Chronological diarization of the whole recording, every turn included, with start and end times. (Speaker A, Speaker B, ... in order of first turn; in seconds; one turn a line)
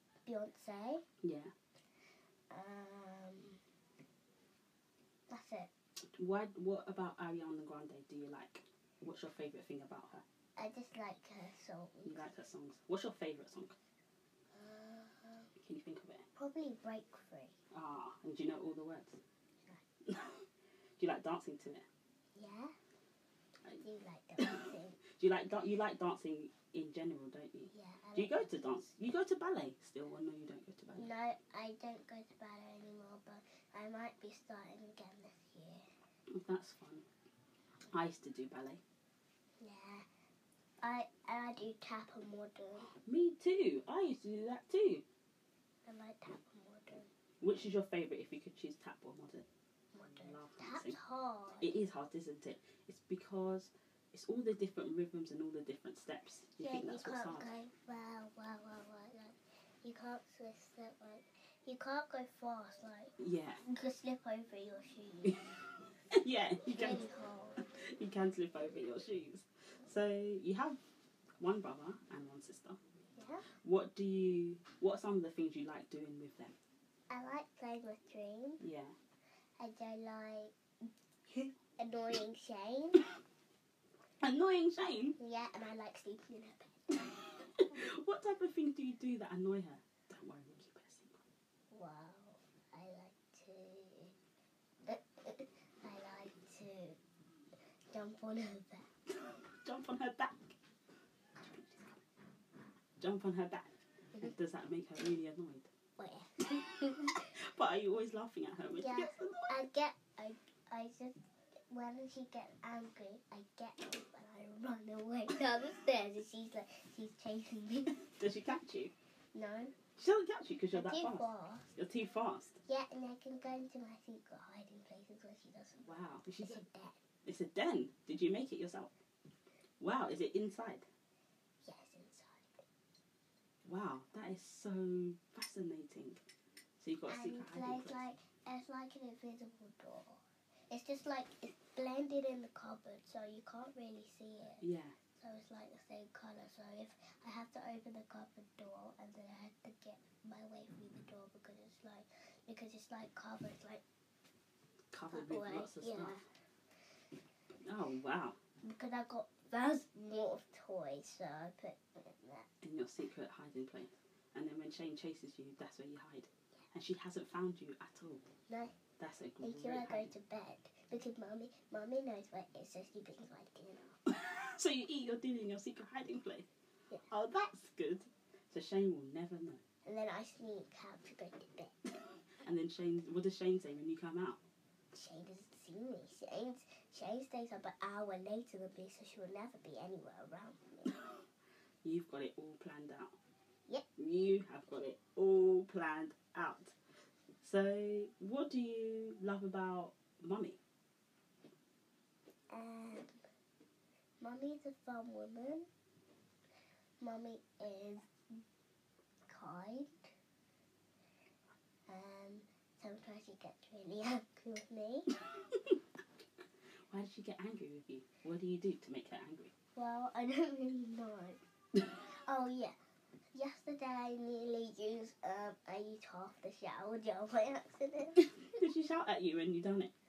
Speaker A: 0.2-1.0
Speaker B: 1.2-1.5
Speaker A: 2.5-3.6
Speaker A: 5.3-5.7
Speaker B: 6.1-10.2
Speaker A: 10.6-12.3
Speaker B: 12.0-13.8
Speaker A: 14.5-15.5
Speaker B: 15.6-16.2
Speaker A: 16.4-17.6
Speaker B: 17.7-19.2
Speaker B: 20.1-20.4
Speaker B: 21.0-21.9
Speaker A: 22.3-22.7
Speaker A: 23.7-25.0
Speaker B: 24.4-31.1
Speaker A: 27.7-28.8
Speaker A: 31.0-35.9
Speaker B: 36.3-37.0
Speaker B: 37.9-38.8
Speaker A: 39.6-40.0
Speaker A: 40.8-42.9
Speaker B: 43.0-45.0
Speaker A: 45.9-47.1
Speaker B: 47.4-49.5
Speaker A: 49.9-51.8
Speaker B: 50.0-51.0
Speaker B: 51.6-57.5
Speaker A: 56.6-65.7
Speaker B: 63.2-63.6
Speaker B: 66.1-67.0
Speaker A: 66.7-67.6
Speaker B: 67.7-70.8
Speaker B: 71.4-72.8
Speaker A: 73.1-73.5
Speaker B: 73.6-76.5
Speaker A: 77.1-78.6
Speaker B: 78.6-78.9
Speaker A: 79.6-80.5
Speaker A: 81.3-83.0
Speaker B: 84.2-85.2
Speaker A: 85.2-87.1
Speaker B: 87.4-91.2
Speaker A: 91.7-94.1
Speaker A: 94.8-97.0
Speaker A: 97.9-98.9
Speaker B: 99.2-100.5
Speaker B: 101.4-101.8
Speaker B: 103.0-105.7
Speaker A: 106.0-107.3
Speaker B: 107.1-109.6
Speaker A: 108.8-118.0
Speaker B: 117.9-118.9
Speaker A: 119.3-119.7
Speaker B: 120.0-122.6
Speaker A: 120.7-121.7
Speaker A: 122.6-127.0
Speaker B: 125.8-126.6
Speaker B: 127.2-128.9
Speaker B: 129.8-130.9
Speaker A: 131.6-132.6
Speaker B: 133.6-136.2
Speaker B: 136.8-138.1
Speaker A: 137.1-144.6
Speaker B: 144.6-144.9
Speaker A: 145.2-153.8
Speaker B: 154.9-156.2
Speaker A: 155.1-156.2
Speaker B: 157.6-158.4
Speaker A: 158.6-162.5
Speaker B: 162.6-168.2
Speaker A: 168.5-168.7
Speaker B: 169.0-170.1
Speaker A: 169.4-174.0
Speaker B: 174.1-176.5
Speaker B: 177.1-179.6
Speaker A: 179.8-181.8
Speaker B: 182.4-184.4
Speaker A: 184.9-190.9
Speaker B: 191.8-193.2
Speaker B: 194.0-196.7
Speaker B: 197.4-200.6
Speaker A: 202.5-203.2
Speaker A: 204.2-205.7
Speaker A: 207.0-208.4
Speaker A: 209.2-210.1
Speaker A: 211.9-215.1
Speaker B: 215.5-215.8
Speaker B: 216.9-219.5
Speaker A: 219.8-221.4
Speaker A: 221.9-222.8
Speaker A: 223.3-228.3
Speaker B: 228.2-229.9